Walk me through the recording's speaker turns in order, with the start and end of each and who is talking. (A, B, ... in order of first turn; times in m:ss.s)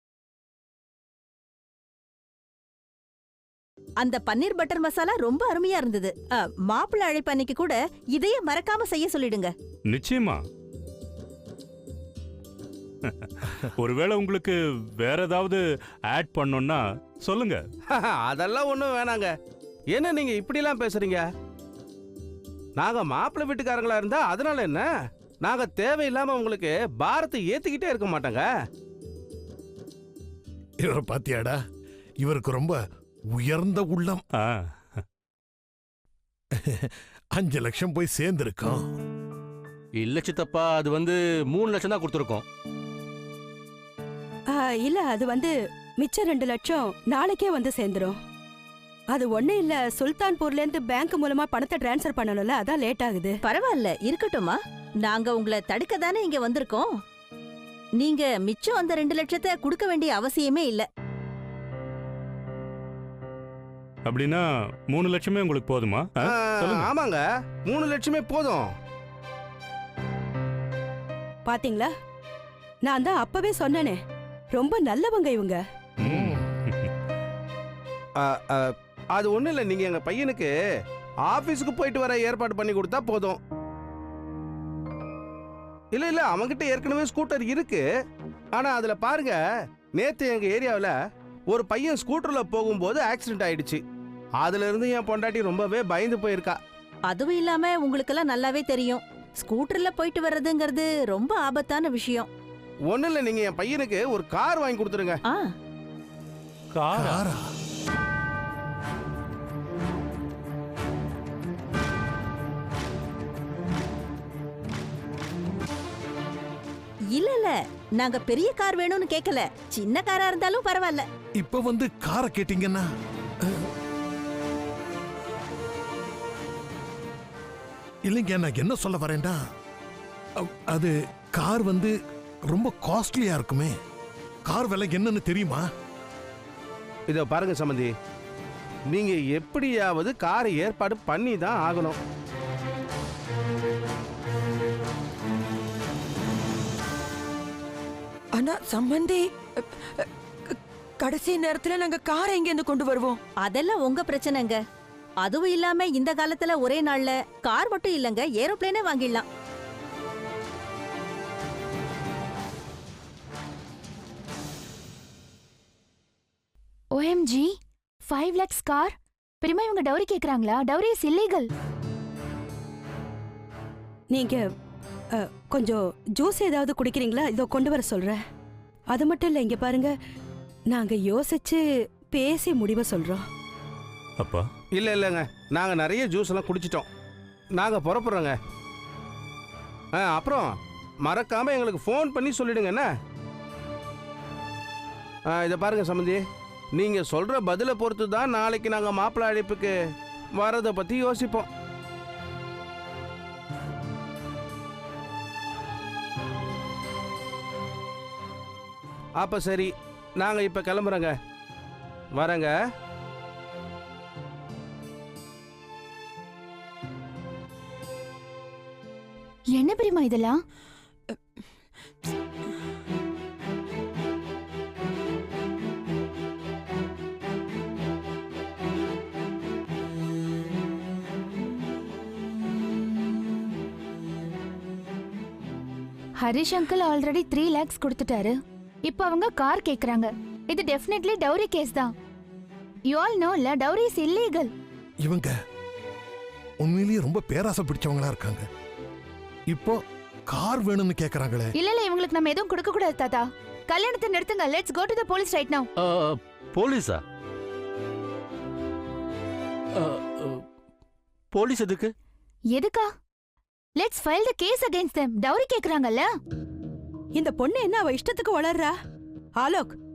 0:04.0-0:09.5 A
0:09.9-0:10.4 B
0:13.0-0:17.6 B
0:17.9-0:19.3 C
0:19.9-0:21.3 C
0:22.8-0:24.9 C
0:25.4-0:28.5 C
0:30.8-0:31.6 D
0:32.2-0:32.8 D
0:33.3-0:34.2 D
0:34.4-0:35.0 B
0:36.6-0:38.9 D
0:40.0-0:42.4 E
0:44.5-0:48.2 F
0:49.1-0:53.4 F
0:53.5-0:56.9 A
0:58.0-1:00.9 A
1:04.1-1:06.9 B
1:06.2-1:08.7 C
1:11.5-1:11.9 F
1:12.8-1:14.0 F
1:14.5-1:15.6 F
1:16.0-1:16.9 B
1:18.2-1:20.5 C
1:21.3-1:23.4 C
1:25.9-1:27.8 C
1:28.6-1:29.4 C
1:30.0-1:30.9 C
1:31.5-1:33.8 C
1:34.4-1:36.6 C
1:37.1-1:42.3 A
1:42.9-1:45.2 C
1:46.7-1:47.2 B
1:46.9-1:47.4 D
1:57.1-2:01.0 A
2:01.4-2:02.8 D
2:08.1-2:09.4 D
2:10.4-2:11.9 D
2:12.5-2:13.7 D
2:14.5-2:15.6 D
2:17.1-2:17.9 C
2:18.9-2:22.0 C
2:28.4-2:29.2 G
2:31.0-2:33.2 G
2:33.4-2:34.6 A
2:35.2-2:39.3 A
2:46.9-2:47.5 H
2:48.0-2:51.5 H
2:54.1-2:54.4 F
2:55.2-2:58.2 F
2:58.9-2:59.9 F
3:00.7-3:03.2 F
3:04.8-3:06.9 C
3:07.6-3:08.3 C
3:10.0-3:10.5 C
3:11.0-3:12.9 C
3:15.3-3:16.2 C
3:16.8-3:19.7 C
3:20.4-3:21.5 C
3:29.2-3:31.1 C
3:32.2-3:32.5 C
3:39.6-3:40.4 H
3:56.2-4:01.9 H
4:02.9-4:04.5 H
4:05.0-4:05.3 D
4:06.6-4:08.4 D
4:09.5-4:09.8 D
4:10.3-4:11.5 D
4:11.6-4:15.7 H
4:15.8-4:17.0 E
4:19.9-4:20.4 E
4:21.3-4:21.9 E
4:22.5-4:22.9 H
4:23.8-4:26.1 H
4:27.2-4:28.7 F
4:29.4-4:29.8 F